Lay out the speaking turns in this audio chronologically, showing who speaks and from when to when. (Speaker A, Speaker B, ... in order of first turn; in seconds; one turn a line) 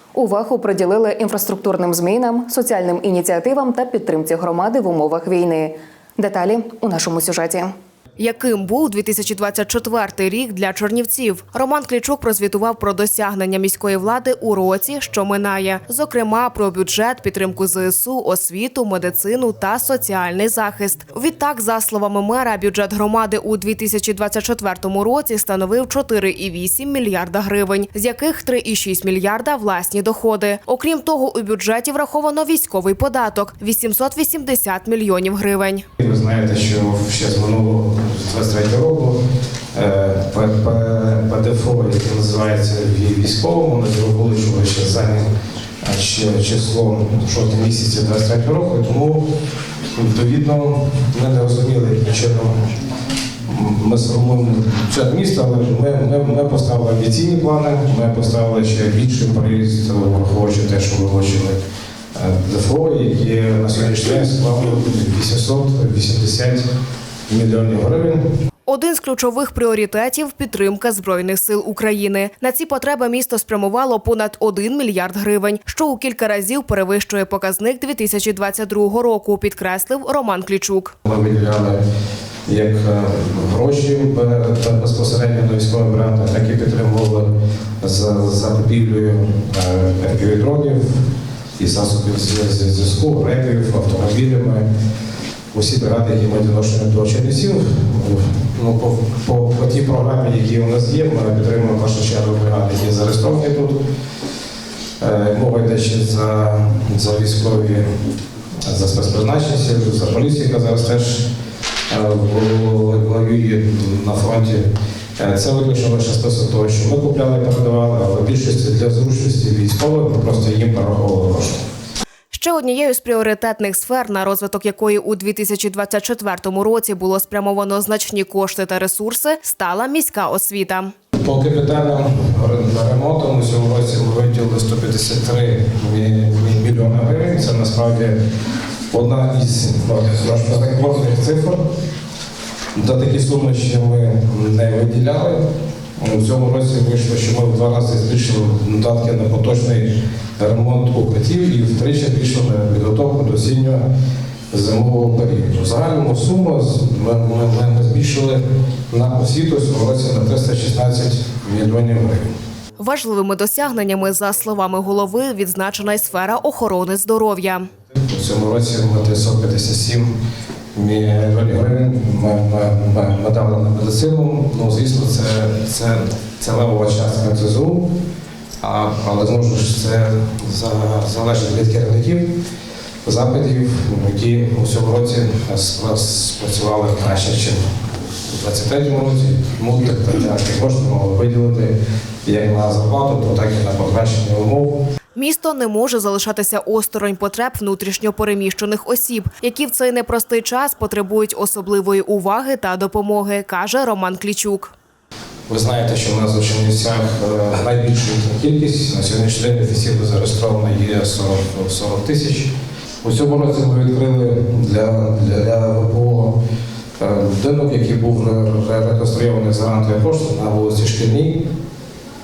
Speaker A: 0.1-7.7
Speaker B: 8.2-35.8
Speaker C: 36.0-39.2
Speaker C: 39.7-45.2
Speaker C: 45.8-49.3
Speaker C: 50.0-52.5
Speaker C: 53.5-61.6
Speaker C: 62.1-66.7
Speaker C: 67.3-68.2
Speaker B: 68.7-80.9
Speaker C: 81.0-81.8
Speaker C: 82.5-87.3
Speaker C: 87.8-91.0
Speaker C: 91.6-94.7
Speaker C: 95.5-103.8
Speaker C: 105.0-107.8
Speaker C: 108.7-111.3
Speaker C: 111.9-114.7
Speaker C: 115.2-121.6
Speaker B: 122.3-130.9
Speaker C: 131.2-138.2
Speaker C: 138.9-141.6
Speaker C: 142.7-145.4
Speaker C: 146.0-153.8
Speaker C: 154.5-162.3
Speaker B: 162.8-167.7
Speaker C: 168.1-170.1
Speaker C: 170.7-177.9
Speaker C: 178.6-182.3
Speaker C: 183.0-191.7
Speaker C: 192.2-194.8
Speaker B: 195.2-204.7
Speaker C: 205.5-212.5
Speaker C: 213.0-216.4
Speaker C: 217.0-221.5